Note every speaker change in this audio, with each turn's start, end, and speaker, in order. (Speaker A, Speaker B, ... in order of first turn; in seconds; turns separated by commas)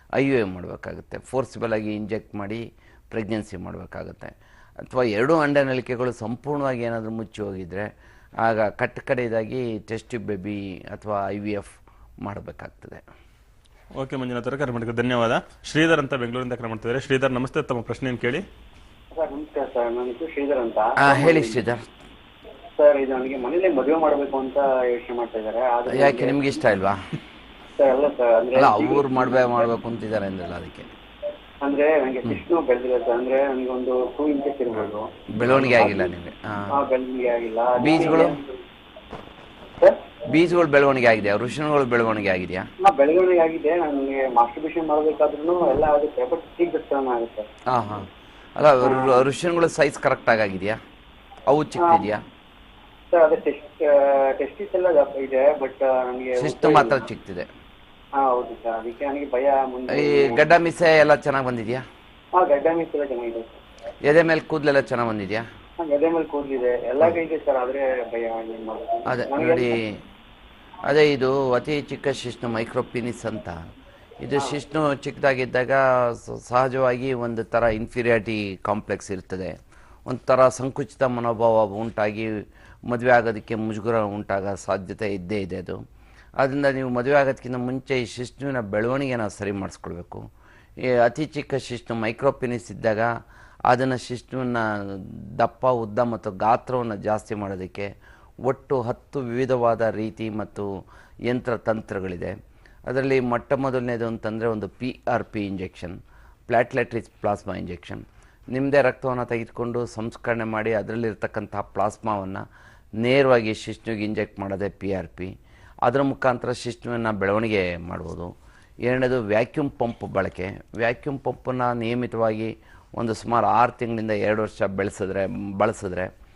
Speaker A: 0.2-7.9, Speaker A: 8.4-13.0, Speaker B: 14.0-18.4, Speaker C: 19.1-21.6, Speaker A: 21.0-21.9, Speaker C: 22.8-26.4, Speaker A: 25.9-27.0, Speaker C: 27.8-29.2, Speaker A: 28.6-30.9, Speaker C: 31.6-35.1, Speaker A: 35.3-36.8, Speaker B: 35.4-35.7, Speaker C: 35.7-36.1, Speaker C: 36.7-38.6, Speaker A: 37.8-38.4, Speaker A: 40.3-42.7, Speaker C: 42.8-47.5, Speaker A: 47.7-50.8, Speaker C: 48.8-49.2, Speaker A: 51.5-52.2, Speaker C: 51.8-52.1, Speaker C: 53.1-57.0, Speaker A: 56.4-57.5, Speaker C: 58.2-60.4, Speaker A: 59.9-61.8, Speaker C: 62.4-63.6, Speaker A: 64.0-65.5, Speaker C: 65.8-69.8, Speaker A: 69.1-70.0, Speaker A: 70.9-73.7, Speaker A: 74.2-79.5, Speaker A: 80.1-82.3, Speaker A: 82.9-85.8, Speaker A: 86.4-90.2, Speaker A: 90.8-93.1, Speaker A: 93.7-97.9, Speaker A: 98.5-100.7, Speaker A: 101.3-102.3, Speaker A: 102.9-112.4, Speaker A: 113.0-115.3, Speaker A: 115.8-118.3, Speaker A: 118.9-126.1